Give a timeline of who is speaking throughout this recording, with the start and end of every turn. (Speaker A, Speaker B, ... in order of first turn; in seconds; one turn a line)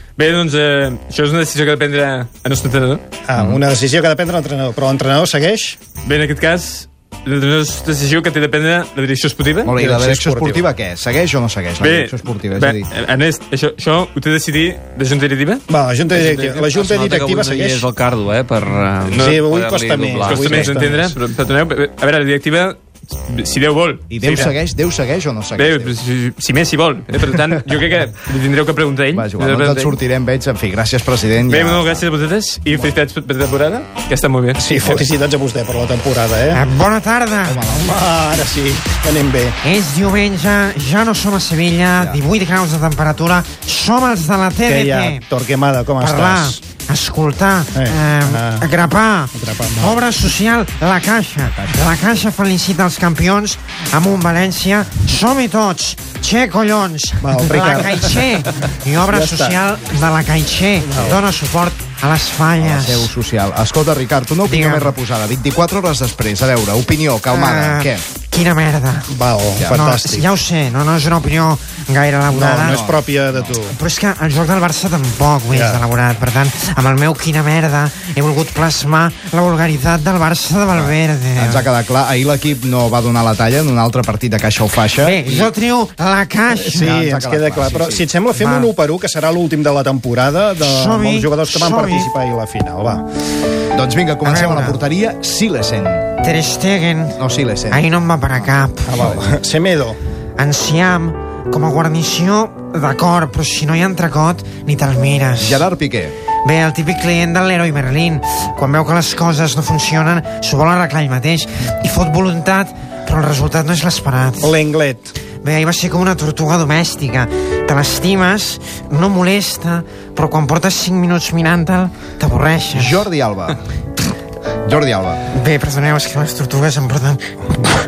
Speaker A: 0.2-3.0
Speaker B: 3.3-5.8
Speaker A: 6.0-9.8
Speaker C: 9.7-12.9
Speaker B: 9.8-10.6
Speaker A: 11.8-16.6
Speaker B: 15.7-17.9
Speaker D: 16.6-20.8
Speaker A: 19.1-19.4
Speaker B: 19.2-21.1
Speaker A: 20.2-24.5
Speaker C: 24.1-25.9
Speaker A: 25.6-30.0
Speaker C: 29.1-32.0
Speaker A: 31.5-35.0
Speaker B: 34.6-36.6
Speaker E: 36.5-37.7
Speaker C: 37.5-38.0
Speaker B: 37.8-39.5
Speaker E: 39.6-45.2
Speaker B: 44.7-46.6
Speaker E: 46.0-63.1
Speaker B: 47.7-48.6
Speaker B: 49.3-50.0
Speaker C: 51.4-52.0
Speaker B: 57.2-58.2
Speaker B: 59.1-59.6
Speaker B: 60.9-61.2
Speaker C: 62.6-68.0
Speaker E: 64.4-65.0
Speaker E: 67.3-69.1
Speaker B: 69.1-70.2
Speaker E: 69.7-72.8
Speaker B: 72.3-73.7
Speaker C: 72.7-73.6
Speaker E: 73.7-81.7
Speaker B: 75.5-75.8
Speaker C: 80.7-85.5
Speaker E: 85.0-87.0
Speaker C: 86.7-88.0
Speaker B: 86.7-93.0
Speaker E: 88.3-88.7
Speaker E: 90.6-92.1
Speaker C: 93.7-96.0
Speaker E: 94.2-94.8
Speaker E: 96.2-99.0
Speaker C: 97.2-97.8
Speaker C: 98.4-99.2
Speaker B: 98.9-100.0
Speaker E: 100.4-105.7
Speaker C: 105.4-106.2
Speaker E: 106.4-114.5
Speaker B: 114.4-115.1
Speaker E: 115.4-123.1
Speaker C: 122.7-123.6
Speaker C: 124.7-125.2
Speaker E: 125.3-127.7